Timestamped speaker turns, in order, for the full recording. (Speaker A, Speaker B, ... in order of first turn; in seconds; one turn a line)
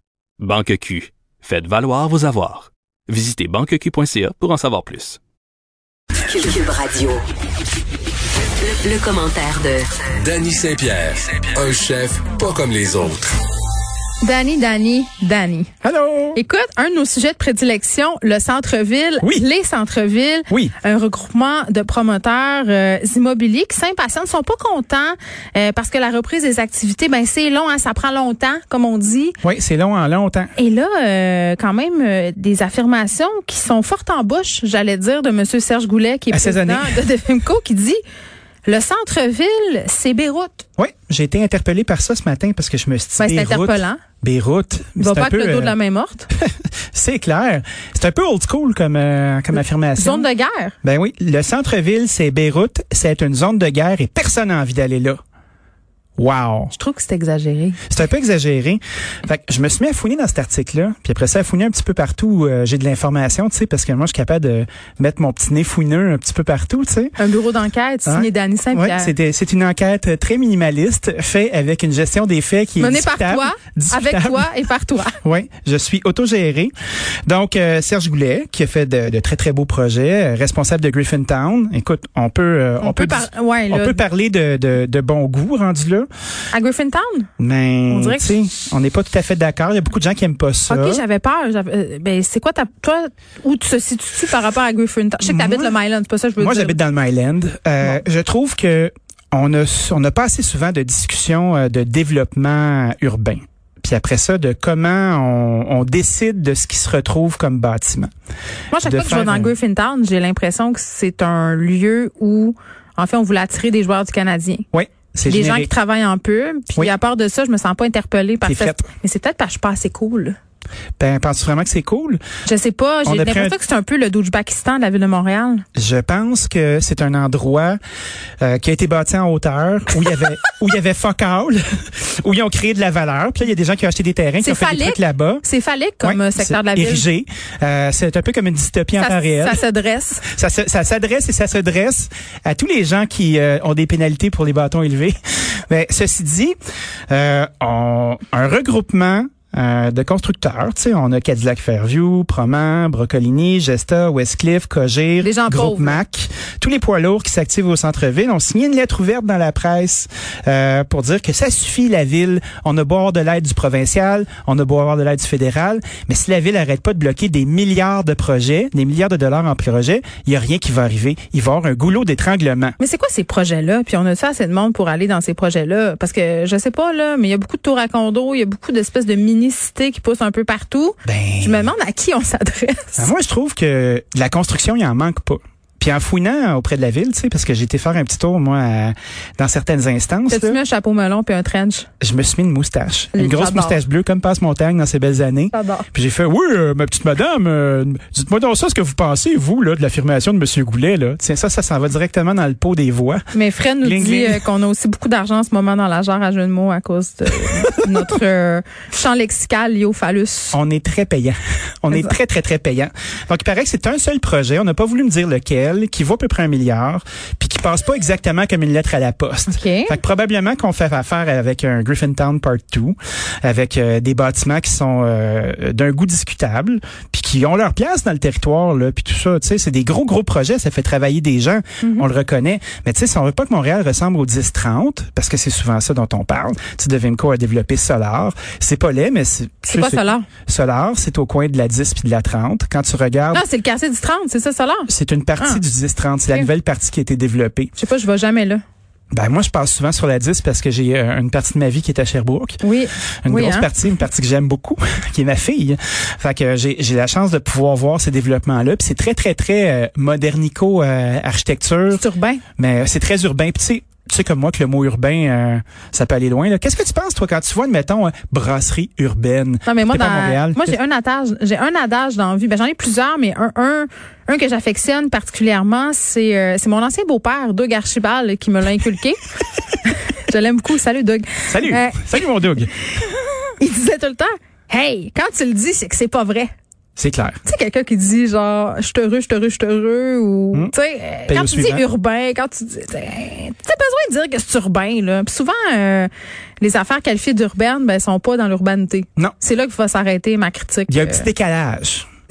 Speaker A: 0.4-5.2
Speaker B: 6.2-7.2
Speaker B: 8.6-10.0
Speaker C: 10.2-13.4
Speaker D: 14.2-15.7
Speaker E: 15.8-16.4
Speaker D: 16.4-29.4
Speaker E: 29.4-30.5
Speaker D: 30.6-38.0
Speaker E: 36.3-37.0
Speaker D: 38.7-40.7
Speaker E: 40.8-45.8
Speaker D: 43.2-44.0
Speaker D: 45.0-46.3
Speaker E: 46.3-50.3
Speaker D: 49.6-50.8
Speaker E: 50.8-55.2
Speaker E: 56.2-56.7
Speaker D: 56.7-57.8
Speaker E: 57.9-67.2
Speaker D: 67.2-69.1
Speaker E: 68.1-74.5
Speaker D: 72.8-75.2
Speaker E: 75.2-76.7
Speaker E: 77.3-86.1
Speaker D: 82.8-84.0
Speaker D: 86.5-87.3
Speaker E: 87.4-91.0
Speaker D: 87.9-88.3
Speaker D: 90.7-96.8
Speaker E: 95.2-95.7
Speaker E: 96.4-108.1
Speaker D: 108.7-114.7
Speaker E: 108.8-109.5
Speaker E: 114.7-115.7
Speaker D: 115.2-120.4
Speaker E: 118.4-118.8
Speaker E: 121.0-122.2
Speaker D: 122.5-125.7
Speaker E: 123.1-123.6
Speaker E: 125.8-127.8
Speaker E: 128.4-135.4
Speaker D: 134.4-137.1
Speaker E: 136.0-139.6
Speaker D: 139.0-140.2
Speaker E: 140.2-145.2
Speaker E: 145.7-146.6
Speaker E: 147.1-172.8
Speaker D: 155.2-156.0
Speaker D: 172.8-183.1
Speaker E: 181.1-181.7
Speaker E: 183.0-190.6
Speaker D: 190.3-191.9
Speaker E: 192.0-203.2
Speaker D: 193.1-193.8
Speaker D: 195.5-195.9
Speaker D: 203.3-210.6
Speaker E: 203.8-204.4
Speaker E: 210.5-243.4
Speaker D: 219.5-220.0
Speaker D: 231.8-232.1
Speaker D: 239.7-240.3
Speaker D: 243.3-245.6
Speaker E: 244.9-247.7
Speaker D: 247.8-248.6
Speaker E: 249.1-252.6
Speaker D: 252.6-253.7
Speaker E: 253.2-262.0
Speaker D: 261.9-262.4
Speaker E: 262.6-270.8
Speaker D: 269.7-279.2
Speaker D: 279.9-282.2
Speaker E: 281.5-282.8
Speaker D: 283.6-286.5
Speaker E: 287.0-287.4
Speaker D: 287.4-301.3
Speaker E: 291.3-291.8
Speaker E: 300.9-302.1